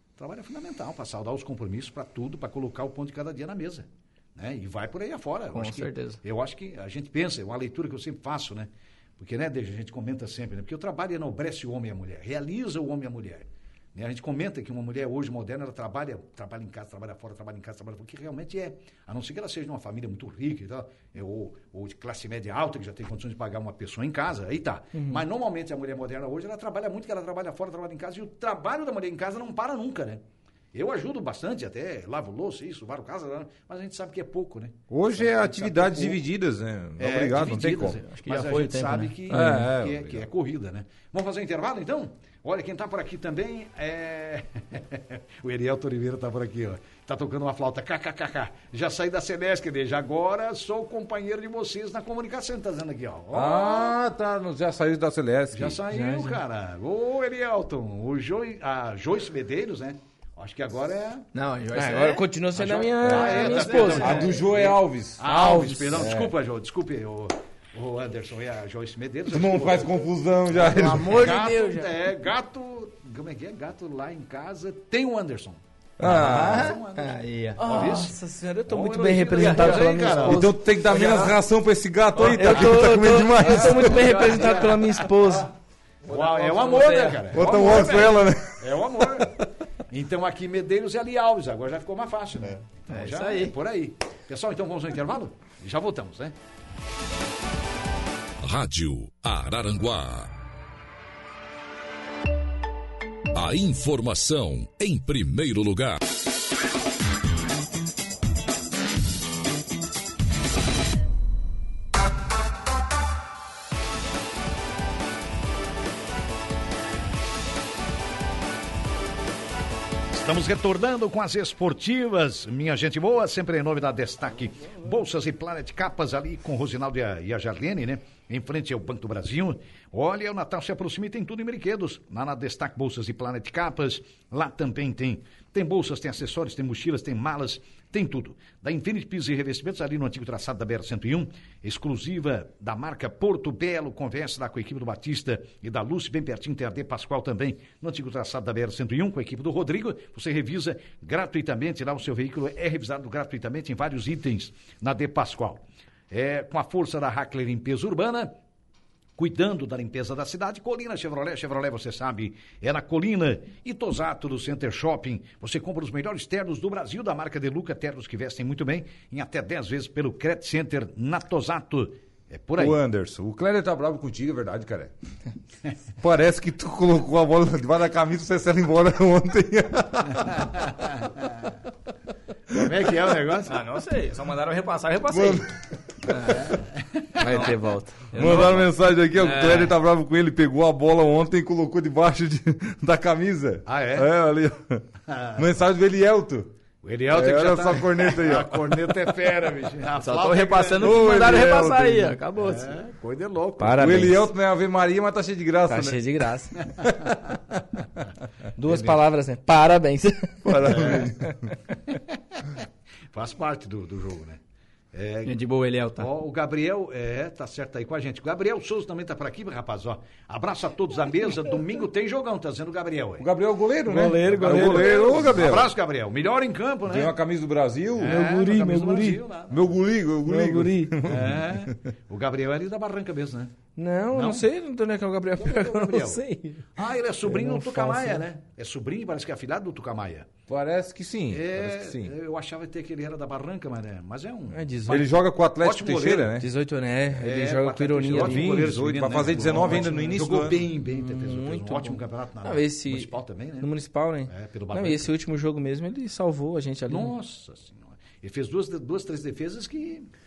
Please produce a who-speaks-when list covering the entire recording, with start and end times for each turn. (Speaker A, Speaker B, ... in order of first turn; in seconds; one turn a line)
Speaker A: 0.2-30.2
Speaker B: 5.5-6.2
Speaker C: 24.9-25.2
Speaker A: 30.7-36.2
Speaker D: 34.9-38.0
Speaker A: 37.0-53.9
Speaker B: 37.4-39.5
Speaker D: 39.3-40.3
Speaker D: 53.3-55.8
Speaker A: 55.5-61.2
Speaker C: 55.9-56.4
Speaker B: 61.3-62.2
Speaker C: 61.7-64.3
Speaker A: 62.5-75.6
Speaker D: 63.0-65.3
Speaker B: 63.1-64.4
Speaker C: 65.2-66.0
Speaker D: 65.9-66.3
Speaker D: 69.3-71.3
Speaker C: 70.5-71.9
Speaker D: 76.0-76.8
Speaker B: 76.0-78.0
Speaker A: 76.2-80.5
Speaker C: 77.6-81.2
Speaker B: 79.3-80.2
Speaker D: 80.2-84.1
Speaker B: 80.9-81.3
Speaker C: 82.2-85.5
Speaker A: 83.5-85.4
Speaker B: 83.9-84.6
Speaker B: 86.1-87.8
Speaker A: 86.1-89.4
Speaker D: 87.3-89.4
Speaker A: 89.9-96.3
Speaker B: 92.9-93.5
Speaker E: 98.4-100.3
Speaker E: 103.3-106.0
Speaker A: 120.1-158.3
Speaker A: 159.2-172.8
Speaker D: 172.6-174.9
Speaker D: 176.0-180.5
Speaker A: 180.3-181.1
Speaker A: 182.5-183.6
Speaker B: 183.5-185.5
Speaker D: 185.1-185.5
Speaker B: 186.1-186.6
Speaker D: 186.1-186.4
Speaker A: 186.3-187.1
Speaker C: 187.2-188.0
Speaker B: 187.2-187.6
Speaker B: 188.1-189.7
Speaker D: 188.1-194.8
Speaker A: 193.7-194.1
Speaker A: 195.1-195.4
Speaker D: 195.3-196.5
Speaker A: 196.8-201.2
Speaker D: 197.1-199.1
Speaker B: 200.0-202.8
Speaker D: 200.8-202.2
Speaker A: 202.4-204.0
Speaker C: 203.6-204.3
Speaker D: 203.8-206.0
Speaker C: 205.7-206.6
Speaker A: 206.6-206.9
Speaker D: 206.8-207.1
Speaker C: 208.6-211.5
Speaker A: 208.6-209.0
Speaker D: 210.4-211.3
Speaker A: 210.7-211.1
Speaker A: 211.9-212.5
Speaker A: 213.1-214.4
Speaker A: 214.9-215.3
Speaker B: 215.2-216.1
Speaker A: 216.0-223.3
Speaker D: 223.2-225.7
Speaker C: 223.8-225.3
Speaker A: 224.2-227.1
Speaker D: 226.8-228.2
Speaker A: 227.9-229.8
Speaker C: 228.0-229.2
Speaker D: 229.5-231.7
Speaker C: 230.2-231.0
Speaker A: 231.0-233.5
Speaker C: 233.8-236.7
Speaker A: 234.1-234.4
Speaker A: 235.4-236.2
Speaker A: 236.7-240.3
Speaker C: 237.2-238.2
Speaker D: 240.5-242.1
Speaker A: 241.3-246.4
Speaker C: 244.5-245.0
Speaker D: 244.9-246.4
Speaker C: 246.3-248.7
Speaker A: 247.1-253.7
Speaker D: 248.1-250.6
Speaker C: 249.3-257.1
Speaker A: 254.3-255.1
Speaker A: 256.9-260.1